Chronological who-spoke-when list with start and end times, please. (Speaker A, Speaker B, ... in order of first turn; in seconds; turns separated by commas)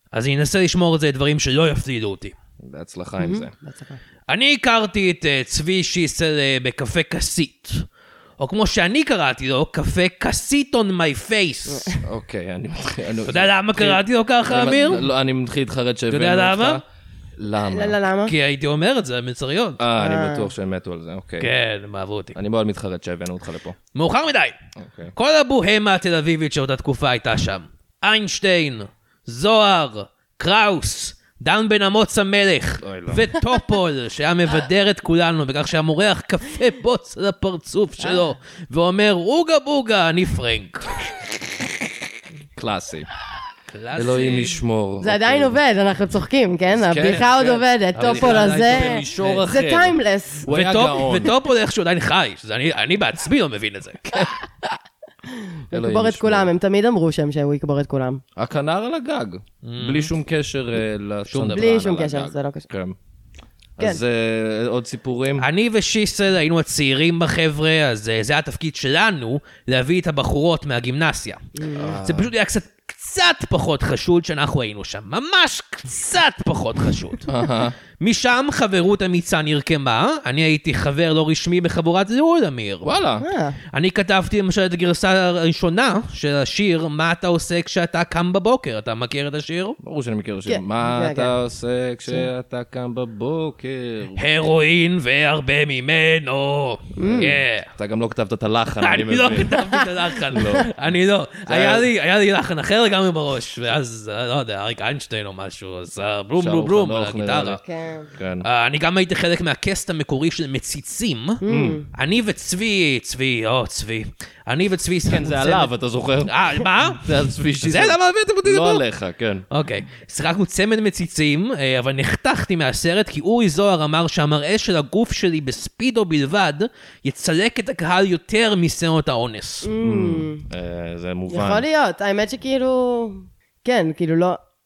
Speaker A: 0.1-2.3, Speaker B: 2.6-3.5, Speaker C: 3.2-4.0, Speaker A: 4.3-7.8, Speaker A: 8.4-11.9, Speaker C: 11.7-12.0, Speaker B: 12.0-16.8, Speaker A: 13.2-15.0, Speaker A: 16.1-16.8, Speaker B: 17.4-18.0, Speaker C: 17.6-18.3, Speaker A: 18.2-19.8, Speaker B: 19.8-21.5, Speaker C: 20.0-20.5, Speaker A: 21.4-22.4, Speaker B: 22.3-23.8, Speaker A: 23.9-24.6, Speaker B: 24.8-25.1, Speaker A: 25.1-41.1, Speaker B: 32.8-33.3, Speaker C: 38.0-38.3, Speaker B: 42.5-43.1, Speaker A: 43.7-44.6, Speaker B: 43.9-45.5, Speaker C: 45.0-50.5, Speaker B: 46.7-51.3, Speaker A: 47.9-49.4, Speaker A: 50.5-54.1, Speaker B: 55.7-56.5, Speaker C: 55.7-58.2, Speaker B: 58.4-63.0, Speaker A: 59.6-60.1, Speaker A: 61.3-61.6, Speaker C: 61.5-62.7, Speaker B: 63.8-65.5, Speaker A: 65.4-71.4, Speaker C: 71.5-72.0, Speaker B: 71.7-72.3, Speaker A: 72.0-77.3, Speaker B: 77.2-77.8, Speaker A: 78.0-82.9, Speaker B: 82.8-83.2, Speaker C: 83.2-83.6, Speaker A: 83.7-89.8, Speaker B: 89.8-94.2, Speaker C: 90.5-91.3, Speaker A: 94.1-97.7, Speaker C: 97.0-97.3, Speaker B: 97.0-99.6, Speaker A: 98.8-107.6, Speaker B: 100.3-100.7, Speaker B: 101.5-101.9, Speaker B: 106.4-107.6, Speaker C: 107.6-108.1, Speaker B: 108.1-108.5, Speaker A: 108.4-115.7, Speaker C: 111.4-111.9, Speaker B: 111.5-111.8, Speaker B: 115.1-119.4, Speaker A: 116.2-118.8, Speaker A: 119.5-129.7, Speaker C: 129.6-130.4, Speaker B: 129.8-131.7, Speaker C: 131.3-134.4